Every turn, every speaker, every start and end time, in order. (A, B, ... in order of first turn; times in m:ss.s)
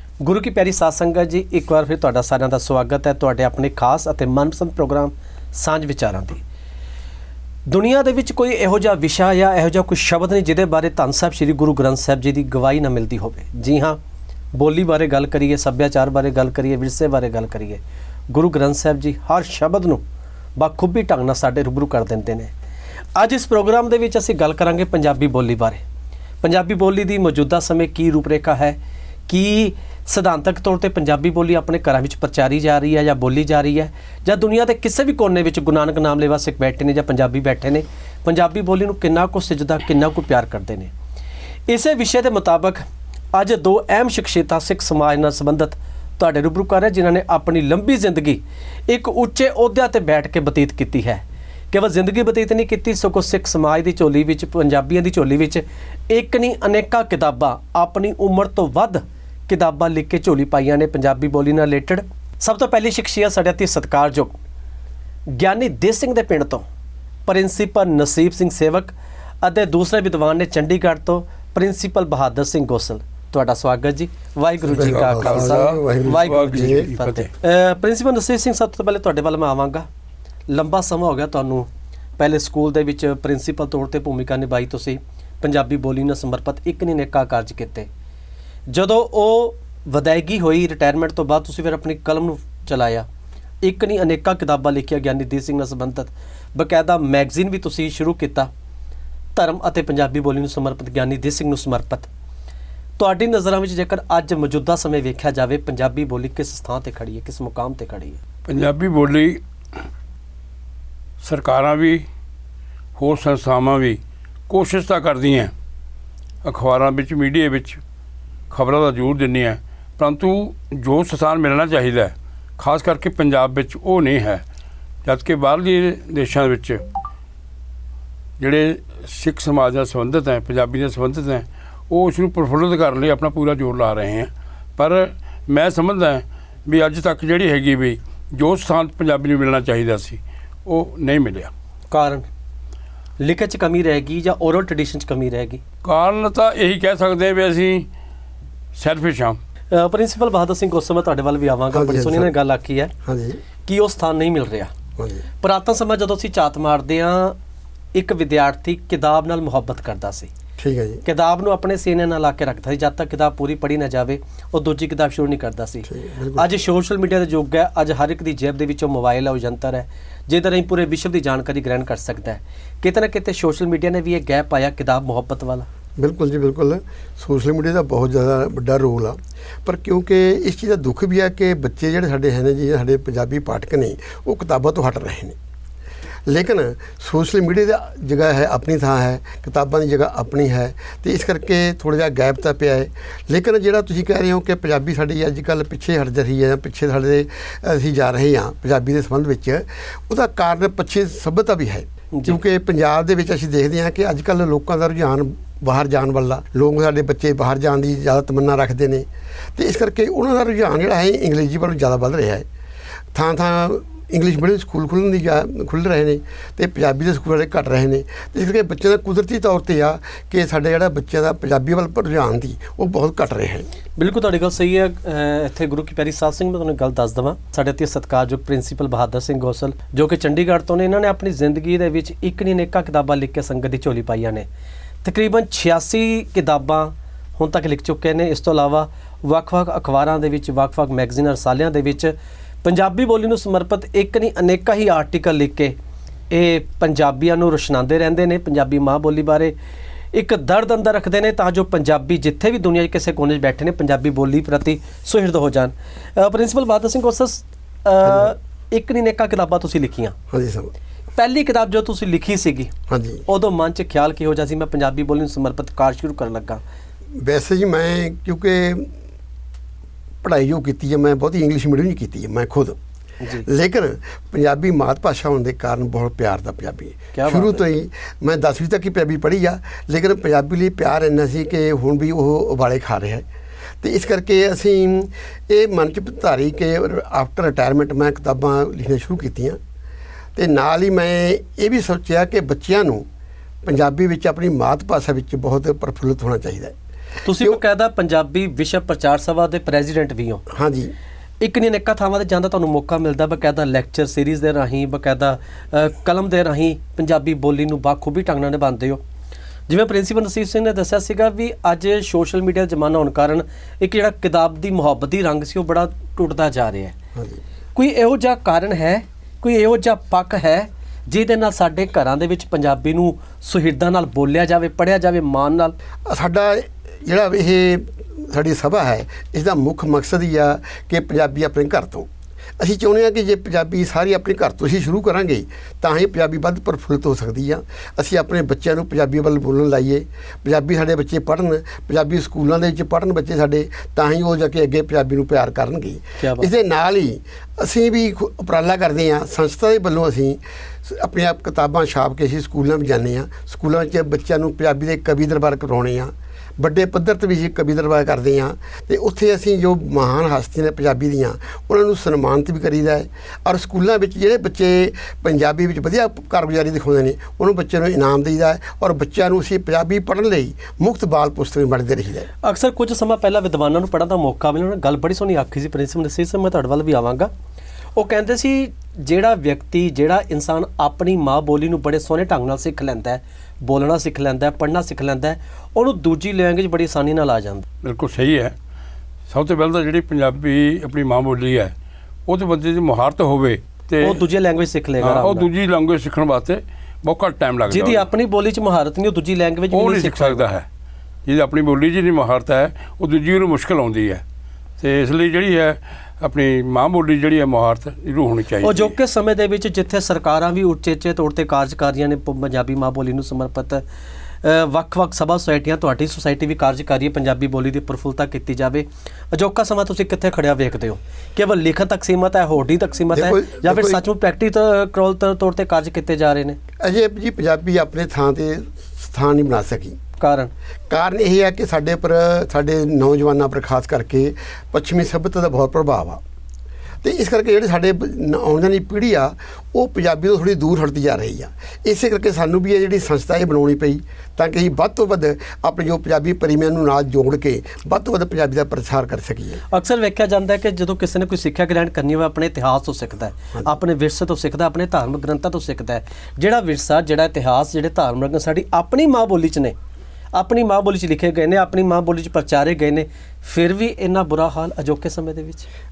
0:00.2-0:06.4 A
0:07.7-0:14.0 A
0:14.6-0:20.0 A
0:20.6-0:22.5 A
0:23.2-0:25.8 A
0:26.4-0:40.9 A
0:41.7-1:04.4 A
1:05.3-1:06.6 A
1:07.3-1:19.9 A
1:14.7-1:16.9 B
1:14.8-1:17.3 C
1:20.5-1:27.9 A
1:28.7-1:33.1 A
1:33.6-1:38.5 A
1:39.4-1:42.1 A
1:43.0-1:48.2 A
1:48.5-1:49.4 C
1:51.2-1:52.0 C
1:53.0-1:55.5 C
1:56.4-1:57.8 C
1:58.5-2:04.4 C
2:05.0-2:06.8 C
2:08.4-2:21.5 C
2:21.9-2:22.3 A
2:23.2-2:25.6 A
2:25.8-2:27.9 C
2:28.8-2:29.4 C
2:29.7-2:32.9 A
2:31.7-2:32.3 B
2:33.0-2:33.4 B
2:33.6-2:34.7 A
2:35.4-2:37.4 A
2:37.9-2:40.3 A
2:40.6-2:41.0 B
2:41.0-2:55.7 A
2:45.9-2:46.4 B
2:56.0-3:05.4 B
3:06.3-3:32.5 B
3:33.1-3:43.7 B
3:44.0-3:54.5 A
3:55.0-4:05.8 A
4:06.3-4:09.5 A
4:10.1-4:20.2 A
4:18.0-4:18.3 B
4:20.3-4:20.7 B
4:21.2-4:22.7 A
4:22.9-4:23.2 B
4:23.3-4:26.6 A
4:27.2-4:28.9 B
4:30.2-4:32.8 B
4:33.2-4:33.5 A
4:33.4-4:43.3 B
4:37.1-4:37.6 A
4:43.8-4:49.6 B
4:50.4-4:53.1 B
4:53.6-4:56.8 B
4:57.2-5:00.4 A
5:00.5-5:00.9 B
5:01.4-5:09.0 A
5:09.7-5:17.0 A
5:17.8-5:25.8 A
5:26.1-6:12.3 B
5:46.2-5:46.5 A
6:12.4-6:17.3 A
6:18.0-6:27.7 A
6:27.8-6:28.6 C
6:29.3-6:31.7 C
6:32.3-6:34.2 C
6:34.0-6:35.5 A
6:35.0-6:38.1 C
6:37.7-6:40.5 A
6:39.7-6:40.6 C
6:41.3-6:44.2 C
6:44.8-6:49.0 C
6:48.6-6:53.8 A
6:54.4-7:06.6 A
7:03.1-7:04.0 B
7:06.8-7:10.0 B
7:10.2-7:10.5 A
7:10.9-7:16.2 B
7:17.0-7:29.6 B
7:29.7-7:39.8 A
7:40.3-7:45.7 A